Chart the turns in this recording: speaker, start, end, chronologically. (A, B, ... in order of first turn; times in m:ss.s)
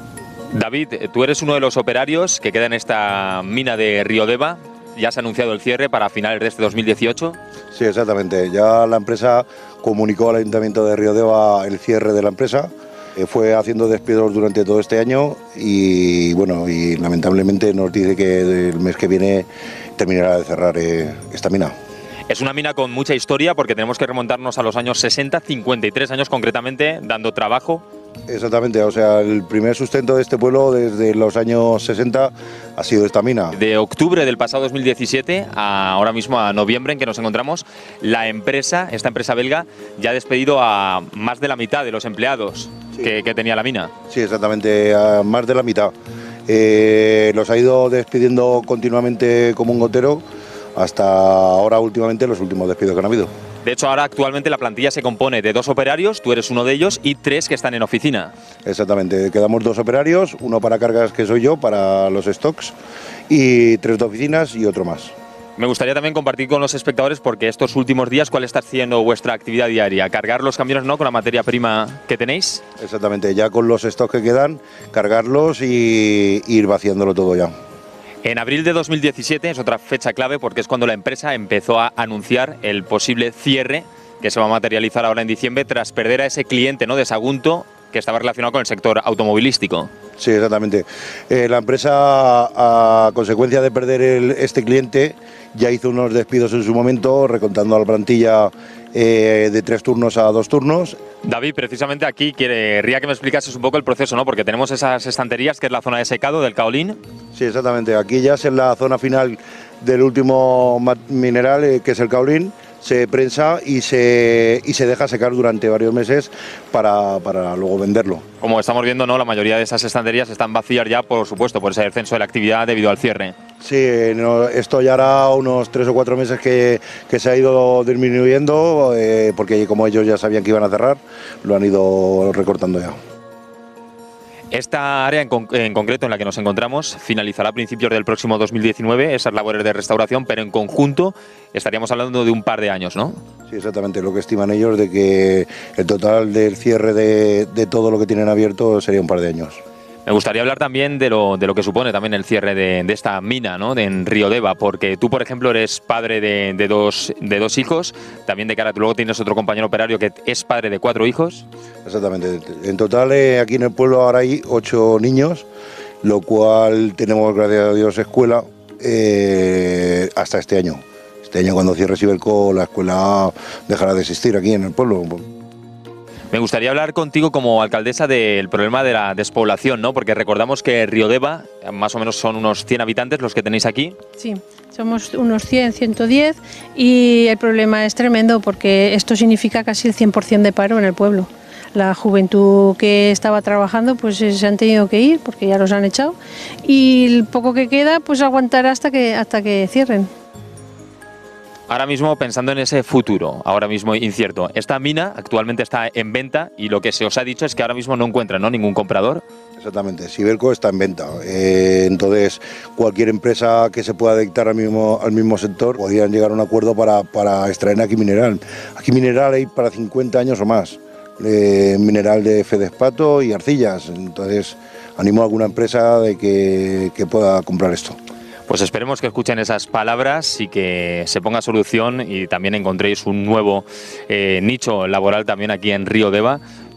0:00.5-0:07.4 A
0:07.7-0:21.7 B
0:22.3-0:27.8 A
0:28.3-0:33.6 B
0:33.5-0:43.9 A
0:44.1-0:45.9 B
0:46.5-0:50.2 B
0:50.8-0:53.3 B
0:53.6-0:58.3 A
0:58.6-1:02.7 B
1:03.3-1:05.1 B
1:05.6-1:12.6 A
1:12.8-1:17.5 B
1:18.2-1:29.9 A
1:30.2-1:41.0 B
1:41.2-1:47.0 A
1:47.3-1:58.2 B
1:58.4-2:03.3 A
2:03.6-2:13.0 B
2:14.5-2:23.2 A
2:23.5-2:29.6 B
2:30.0-2:41.4 A
2:41.8-2:45.4 B
2:46.0-2:55.2 B
2:56.3-3:03.9 A
3:04.2-3:20.1 C
3:21.7-3:29.2 A
3:29.6-3:48.0 B
3:48.5-3:56.4 A